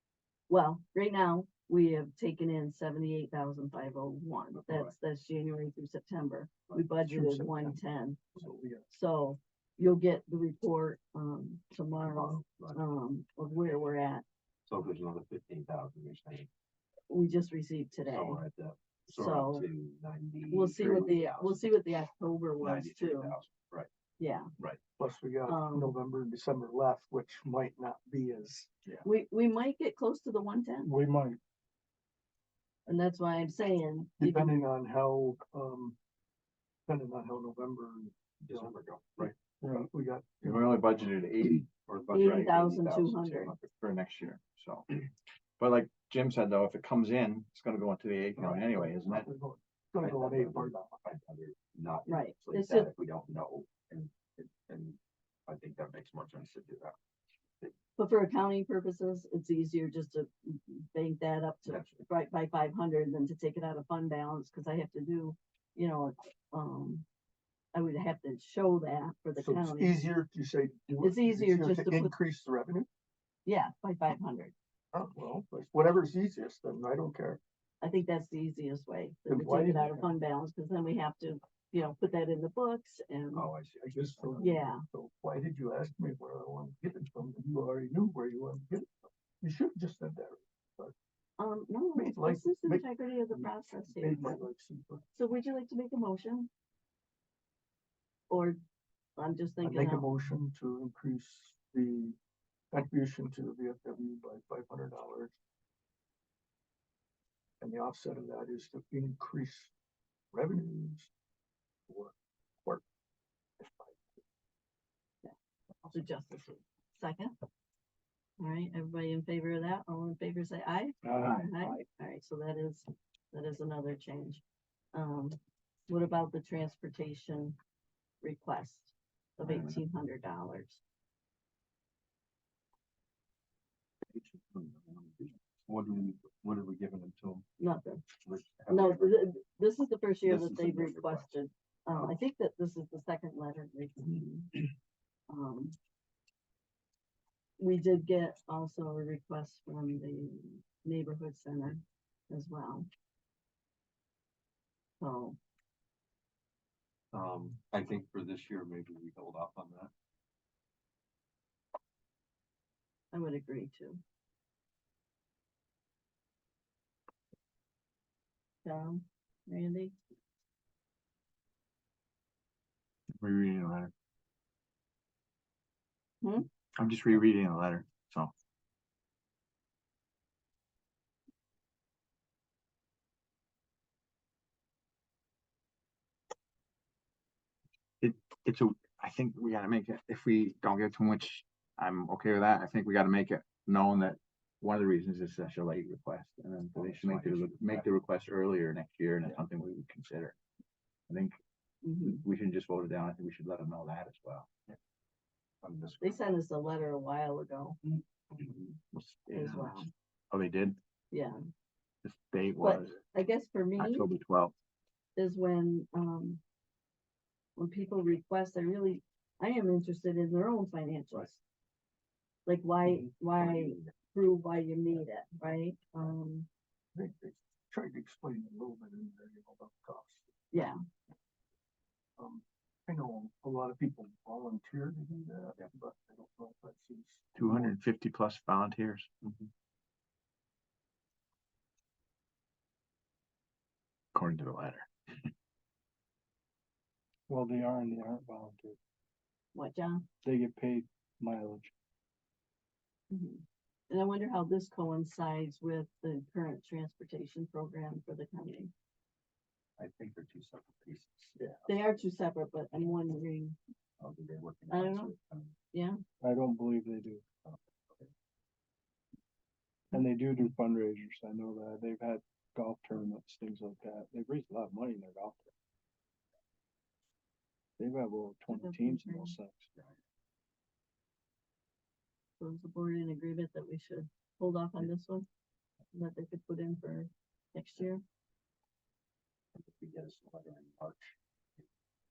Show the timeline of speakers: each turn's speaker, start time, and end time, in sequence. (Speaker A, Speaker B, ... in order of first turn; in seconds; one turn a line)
Speaker A: 0.5-8.3
Speaker B: 4.5-5.0
Speaker C: 6.7-7.8
Speaker C: 8.3-8.9
Speaker A: 8.9-14.2
Speaker B: 12.0-12.8
Speaker B: 14.7-16.5
Speaker A: 17.1-18.4
Speaker B: 18.0-21.6
Speaker A: 19.1-19.7
Speaker A: 20.5-23.4
Speaker B: 22.6-23.9
Speaker A: 24.2-24.5
Speaker C: 25.0-28.7
Speaker A: 25.5-26.0
Speaker A: 29.0-31.0
Speaker D: 30.9-31.4
Speaker A: 32.9-34.6
Speaker C: 34.2-36.0
Speaker C: 36.9-41.0
Speaker B: 38.4-39.4
Speaker E: 40.4-41.7
Speaker B: 41.9-43.6
Speaker A: 42.1-43.5
Speaker E: 43.6-49.3
Speaker C: 48.4-51.0
Speaker B: 50.0-57.0
Speaker A: 52.1-52.9
Speaker A: 58.0-67.1
Speaker B: 61.6-62.1
Speaker A: 67.7-70.0
Speaker C: 69.4-72.9
Speaker A: 71.0-72.1
Speaker A: 73.5-74.5
Speaker C: 74.9-77.4
Speaker A: 77.8-83.5
Speaker C: 79.3-80.1
Speaker B: 83.3-84.6
Speaker C: 83.8-90.9
Speaker A: 84.4-84.8
Speaker A: 91.4-94.4
Speaker C: 92.0-95.0
Speaker A: 95.2-96.5
Speaker A: 98.3-98.6
Speaker A: 99.2-100.1
Speaker C: 99.6-102.2
Speaker C: 102.7-105.3
Speaker C: 107.6-109.7
Speaker C: 110.3-111.1
Speaker C: 111.9-112.8
Speaker C: 113.6-114.2
Speaker A: 115.9-117.3
Speaker A: 118.4-125.4
Speaker D: 121.0-121.5
Speaker E: 121.4-121.7
Speaker A: 125.9-127.6
Speaker A: 128.2-130.8
Speaker E: 129.4-129.8
Speaker B: 134.1-137.5
Speaker A: 137.6-138.0
Speaker B: 138.2-139.3
Speaker A: 138.7-144.6
Speaker B: 140.2-141.3
Speaker A: 145.3-145.8
Speaker A: 147.6-152.9
Speaker A: 155.0-155.4
Speaker B: 157.1-159.9
Speaker A: 163.1-164.0
Speaker A: 168.7-169.9
Speaker E: 173.2-173.9
Speaker A: 176.2-176.5
Speaker E: 176.8-178.3
Speaker E: 188.0-200.4
Speaker B: 196.7-197.9
Speaker E: 201.1-201.3
Speaker A: 201.8-202.2
Speaker E: 202.0-204.5
Speaker B: 205.6-206.2
Speaker A: 206.0-207.8
Speaker E: 208.9-210.8
Speaker A: 209.3-209.9
Speaker A: 211.1-211.4
Speaker E: 212.0-213.0
Speaker A: 212.6-214.1
Speaker E: 213.8-214.5
Speaker A: 215.2-216.4
Speaker A: 217.6-221.4
Speaker A: 222.5-226.5
Speaker B: 223.1-223.9
Speaker C: 226.9-230.3
Speaker A: 230.5-230.8
Speaker C: 232.2-237.8
Speaker E: 237.4-239.5
Speaker E: 244.2-245.3
Speaker D: 247.3-248.8
Speaker A: 249.6-250.1
Speaker D: 250.2-251.7
Speaker A: 253.1-258.7
Speaker B: 259.8-261.8
Speaker A: 261.7-263.6
Speaker B: 264.0-265.6
Speaker A: 264.7-265.1
Speaker A: 265.7-266.0
Speaker D: 266.2-267.2
Speaker B: 267.4-268.1
Speaker D: 269.9-275.5
Speaker D: 277.8-279.7
Speaker A: 278.5-279.4
Speaker A: 282.4-285.3
Speaker A: 285.9-288.0
Speaker B: 289.6-291.6